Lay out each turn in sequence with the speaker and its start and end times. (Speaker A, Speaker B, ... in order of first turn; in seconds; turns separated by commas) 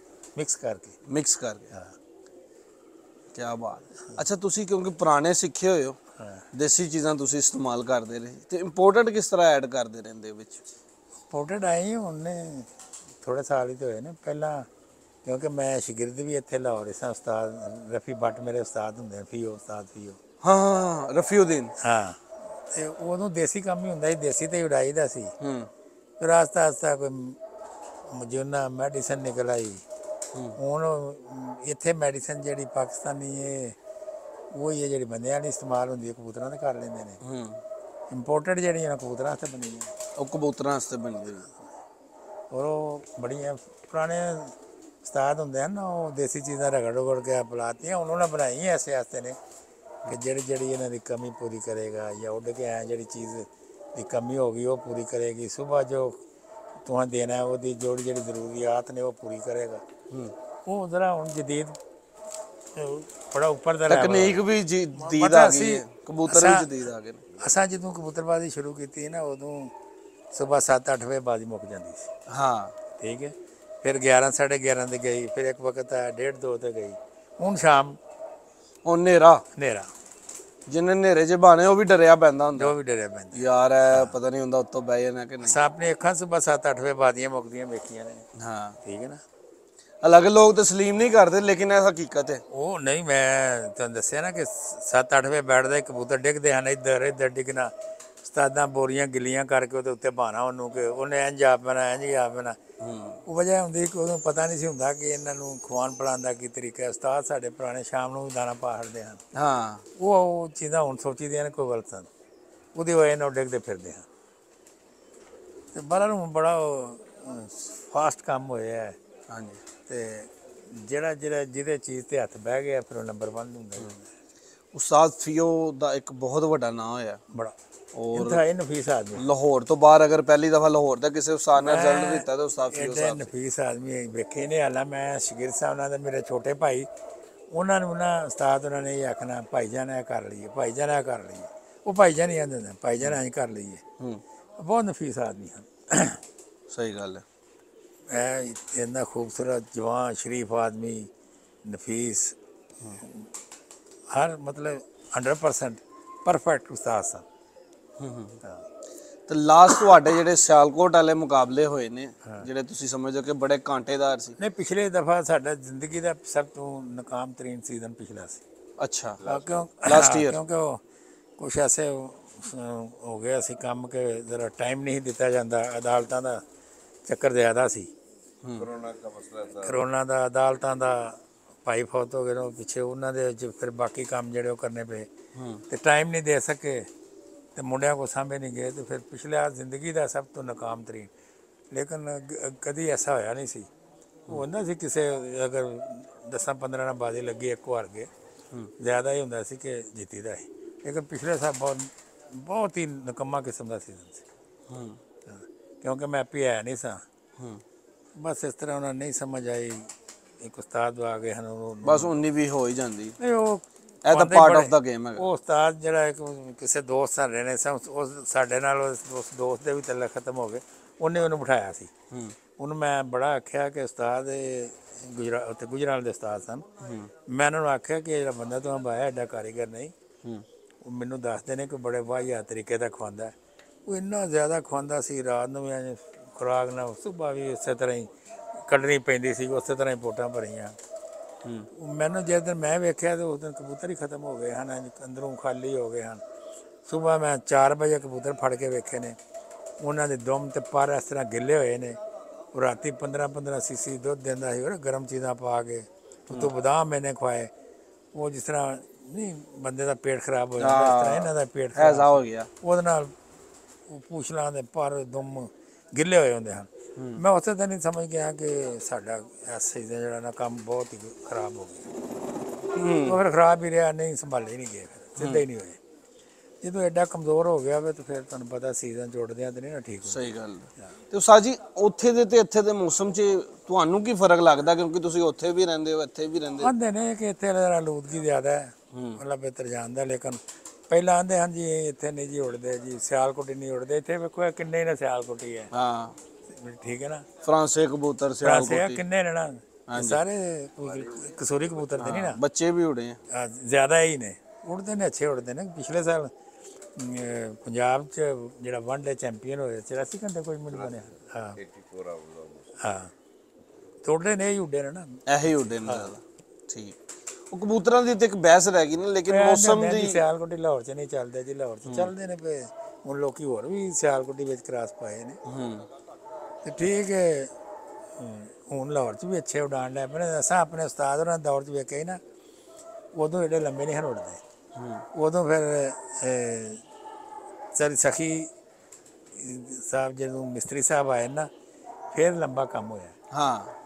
Speaker A: 0.3-0.9, Speaker B: 1.1-1.7, Speaker B: 3.3-6.0, Speaker B: 6.5-10.6, Speaker A: 11.3-12.7, Speaker A: 13.2-14.7, Speaker A: 15.2-20.2, Speaker B: 20.4-21.7, Speaker A: 21.8-25.3, Speaker B: 25.4-25.7, Speaker A: 26.2-27.4, Speaker A: 28.1-29.8, Speaker A: 30.6-33.8, Speaker A: 34.5-37.2, Speaker B: 37.2-37.6, Speaker A: 38.1-39.9, Speaker B: 40.2-41.5, Speaker A: 42.5-49.4, Speaker A: 50.0-56.2, Speaker A: 56.8-59.8, Speaker A: 60.6-61.8, Speaker A: 62.7-64.4, Speaker B: 63.9-67.2, Speaker A: 65.0-66.7, Speaker A: 67.4-69.7, Speaker A: 70.3-72.1, Speaker B: 72.3-72.7, Speaker A: 73.0-78.0, Speaker B: 78.8-79.4, Speaker A: 79.5-79.9, Speaker B: 80.7-82.7, Speaker A: 82.5-83.4, Speaker B: 83.3-85.6, Speaker A: 85.4-88.2, Speaker B: 88.3-88.8, Speaker A: 88.8-89.2, Speaker B: 90.0-92.4, Speaker A: 92.5-102.6, Speaker B: 102.8-103.2, Speaker A: 103.2-109.2, Speaker B: 109.3-109.8, Speaker A: 110.0-112.1, Speaker A: 112.8-114.1, Speaker A: 115.7-119.0, Speaker B: 119.3-119.6, Speaker A: 119.8-124.1, Speaker B: 124.7-127.2, Speaker B: 127.9-128.4, Speaker A: 128.1-129.2, Speaker B: 129.2-133.3, Speaker A: 131.6-136.9, Speaker A: 137.5-143.8, Speaker A: 144.6-146.2, Speaker B: 146.7-147.2, Speaker A: 148.1-151.1, Speaker A: 151.6-152.3, Speaker A: 153.0-153.3, Speaker A: 154.1-157.2, Speaker B: 158.0-158.4, Speaker B: 159.3-164.4, Speaker A: 164.4-168.4, Speaker B: 168.8-169.2, Speaker C: 169.2-169.7, Speaker A: 169.2-170.8, Speaker B: 169.8-170.4, Speaker A: 171.4-176.4, Speaker A: 177.1-177.9, Speaker C: 178.6-179.8, Speaker A: 179.5-185.1, Speaker B: 185.3-185.6, Speaker A: 185.7-186.9, Speaker A: 187.5-191.1, Speaker A: 191.7-193.7, Speaker A: 194.3-198.1, Speaker A: 198.8-204.2, Speaker B: 204.7-205.0, Speaker A: 205.2-207.0, Speaker A: 208.1-212.1, Speaker B: 211.8-213.2, Speaker A: 213.2-221.9, Speaker B: 214.0-215.2, Speaker B: 222.1-222.3, Speaker A: 222.6-226.7, Speaker B: 226.8-227.1, Speaker A: 227.2-229.9, Speaker A: 230.8-233.3, Speaker A: 233.8-240.8, Speaker A: 241.7-246.2, Speaker A: 246.8-249.2, Speaker A: 249.8-252.0, Speaker A: 252.5-257.5, Speaker A: 258.1-263.1, Speaker B: 260.6-262.5, Speaker A: 263.9-271.9, Speaker B: 272.7-273.2, Speaker A: 273.0-275.8, Speaker B: 275.2-275.4, Speaker A: 276.6-280.2, Speaker B: 280.1-286.7, Speaker A: 286.6-295.7, Speaker B: 288.9-289.2, Speaker B: 295.7-296.2, Speaker A: 296.5-297.2, Speaker B: 297.4-299.0, Speaker A: 298.4-302.4, Speaker B: 299.9-300.2, Speaker C: 300.8-302.1, Speaker B: 302.0-303.2, Speaker A: 303.3-306.3, Speaker A: 306.9-311.6, Speaker C: 310.7-312.7, Speaker A: 312.8-313.1, Speaker A: 314.0-316.1, Speaker B: 315.3-317.0, Speaker B: 317.5-320.2, Speaker A: 319.3-325.4, Speaker B: 321.9-322.1, Speaker B: 325.4-325.9, Speaker A: 326.6-327.5, Speaker A: 328.2-332.2, Speaker A: 333.1-334.4, Speaker B: 334.8-335.1, Speaker A: 335.1-336.8, Speaker A: 337.7-338.5, Speaker A: 339.3-341.5, Speaker A: 342.1-343.1, Speaker B: 343.3-343.7